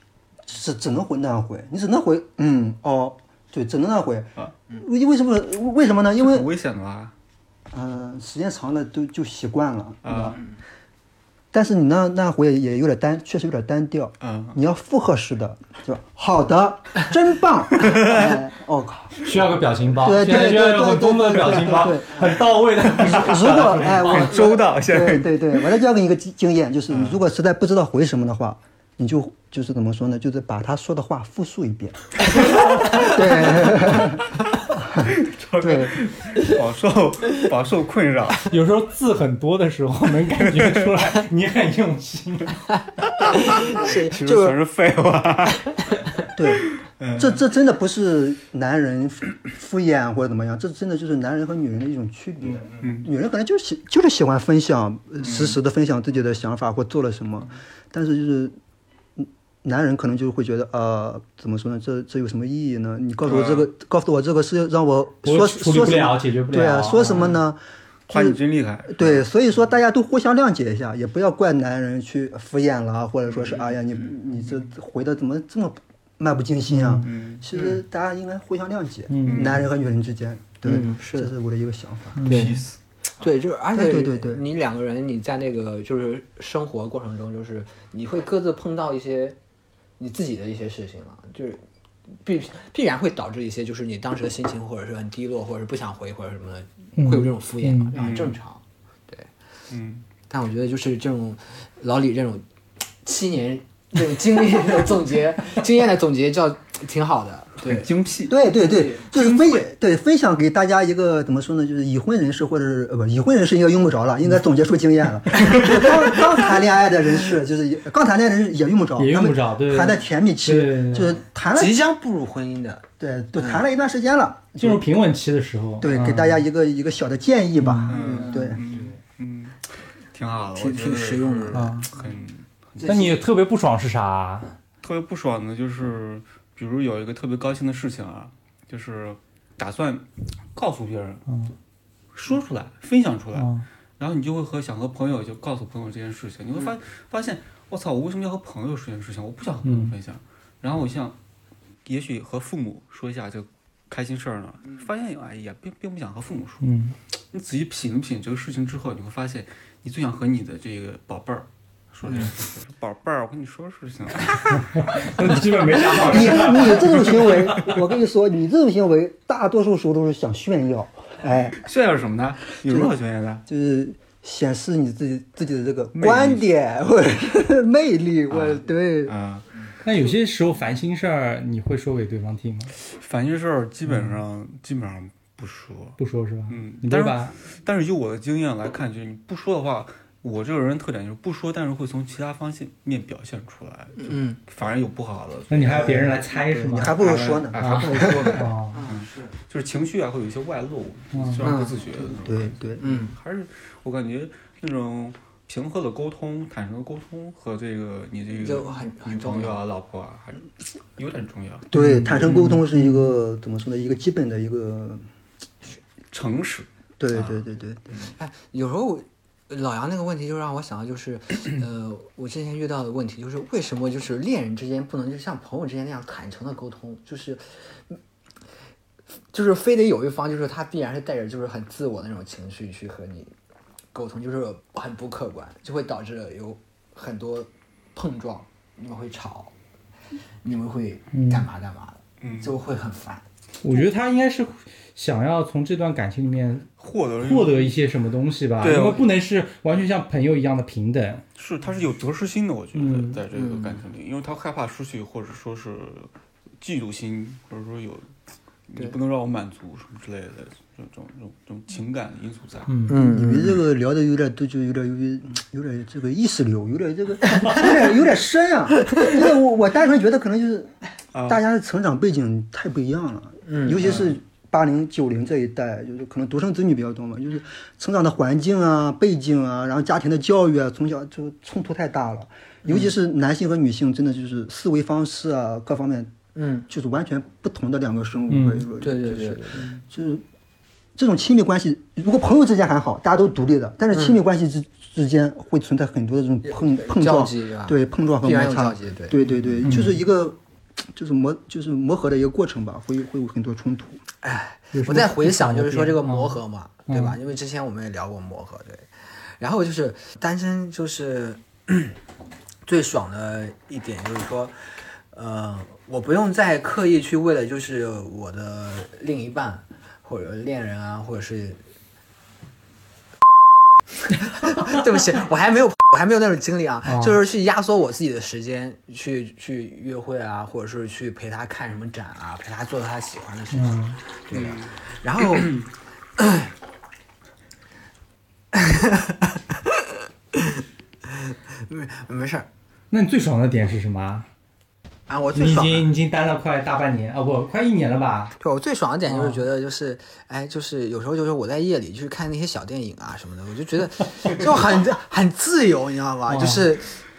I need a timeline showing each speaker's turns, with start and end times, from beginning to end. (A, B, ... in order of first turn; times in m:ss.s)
0:00.4-0:06.5 A
0:06.2-0:07.1 B
0:07.7-0:10.4 A
0:10.0-0:10.4 B
0:11.5-0:19.2 A
0:14.2-0:14.6 B
0:17.8-0:18.3 B
0:19.2-0:24.2 C
0:20.0-0:32.2 A
0:23.0-0:25.4 B
0:26.9-0:27.2 B
0:32.9-0:34.2 A
0:33.0-0:34.1 B
0:34.8-0:36.0 A
0:35.0-0:38.5 B
0:38.5-0:42.6 C
0:40.4-0:40.9 B
0:43.3-0:46.0 B
0:43.4-0:44.5 D
0:46.3-0:58.6 A
0:46.6-0:47.4 B
0:52.8-0:53.1 B
0:55.2-0:55.6 B
0:59.2-1:22.2 A
1:03.3-1:03.6 B
1:05.2-1:07.3 C
1:08.1-1:09.2 B
1:16.7-1:17.0 C
1:17.0-1:17.4 B
1:17.5-1:17.8 D
1:19.1-1:19.5 C
1:19.2-1:19.7 B
1:20.6-1:21.3 D
1:22.2-1:22.5 C
1:22.2-1:22.8 B
1:22.3-1:22.6 D
1:23.2-1:29.4 D
1:23.7-1:24.4 A
1:30.0-1:31.6 D
1:32.2-1:39.3 D
1:37.0-1:37.9 C
1:38.0-1:38.4 B
1:39.7-1:40.0 B
1:40.3-1:42.4 D
1:43.0-1:47.9 D
1:47.6-1:48.4 B
1:48.3-2:01.8 A
1:48.6-1:49.0 D
1:49.1-1:49.6 B
1:55.5-1:55.8 D
1:59.0-2:01.2 C
2:01.5-2:02.8 D
2:03.0-2:04.8 A
2:03.4-2:03.6 D
2:04.6-2:06.4 C
2:05.8-2:08.6 A
2:07.6-2:07.9 C
2:07.9-2:13.1 B
2:08.0-2:08.9 D
2:10.6-2:12.1 D
2:11.5-2:11.9 C
2:12.8-2:13.2 A
2:12.8-2:14.6 C
2:14.8-2:21.3 B
2:21.3-2:21.5 C
2:22.1-2:31.2 B
2:23.3-2:23.6 C
2:29.6-2:29.9 C
2:31.8-2:36.7 B
2:36.6-2:36.9 C
2:37.3-2:47.8 B
2:42.0-2:42.3 D
2:44.8-2:47.8 C
2:45.9-2:51.6 A
2:51.2-2:53.4 B
2:52.6-2:52.9 A
2:53.4-2:59.1 A
2:55.9-2:56.4 B
2:58.3-2:59.5 B
2:59.8-3:02.7 C
3:02.8-3:06.0 B
3:03.9-3:04.2 C
3:06.0-3:07.3 C
3:06.5-3:16.2 B
3:14.0-3:14.4 D
3:15.5-3:16.9 C
3:15.8-3:18.4 A
3:16.8-3:31.7 B
3:17.6-3:18.8 C
3:18.2-3:19.3 D
3:21.1-3:21.5 C
3:21.4-3:22.0 D
3:22.2-3:22.8 A
3:22.8-3:23.1 D
3:28.4-3:29.6 D
3:31.7-3:35.0 A
3:31.7-3:33.1 C
3:32.2-3:32.5 B
3:36.1-3:37.4 B
3:37.0-3:37.8 A
3:38.0-3:48.0 D
3:49.3-3:53.3 D
3:53.9-3:59.5 D
4:00.4-4:03.2 D
4:01.1-4:01.4 C
4:02.2-4:02.6 B
4:03.6-4:06.7 C
4:06.8-4:07.8 B
4:07.2-4:11.2 C
4:08.6-4:09.1 B
4:11.4-4:18.1 B
4:12.7-4:13.2 C
4:13.3-4:13.8 D
4:18.7-4:22.9 B
4:22.7-4:23.0 C
4:22.9-4:23.6 D
4:23.0-4:30.7 A
4:27.4-4:27.7 D
4:28.9-4:29.1 D
4:31.1-4:31.4 B
4:31.2-4:46.2 A
4:33.4-4:34.0 D
4:33.8-4:34.1 B
4:42.6-4:42.9 D
4:46.3-4:46.6 D
4:46.7-4:50.2 A
4:48.3-4:48.6 C
4:48.8-4:49.7 D
4:50.9-5:04.0 A
4:56.4-4:59.2 D
4:59.6-5:00.0 C
5:04.2-5:08.9 D
5:04.7-5:07.2 C
5:09.4-5:12.0 D
5:12.6-5:14.6 D
5:15.1-5:21.6 D
5:24.1-5:35.6 D
5:26.8-5:27.2 C
5:33.5-5:34.0 C
5:34.3-5:35.6 B
5:36.2-5:36.5 D
5:38.5-5:39.7 D
5:40.3-5:42.5 D
5:42.9-5:44.3 C
5:45.1-5:45.9 D
5:45.3-5:48.3 C
5:48.4-5:57.0 D
5:49.1-5:49.4 C
5:56.3-5:56.6 C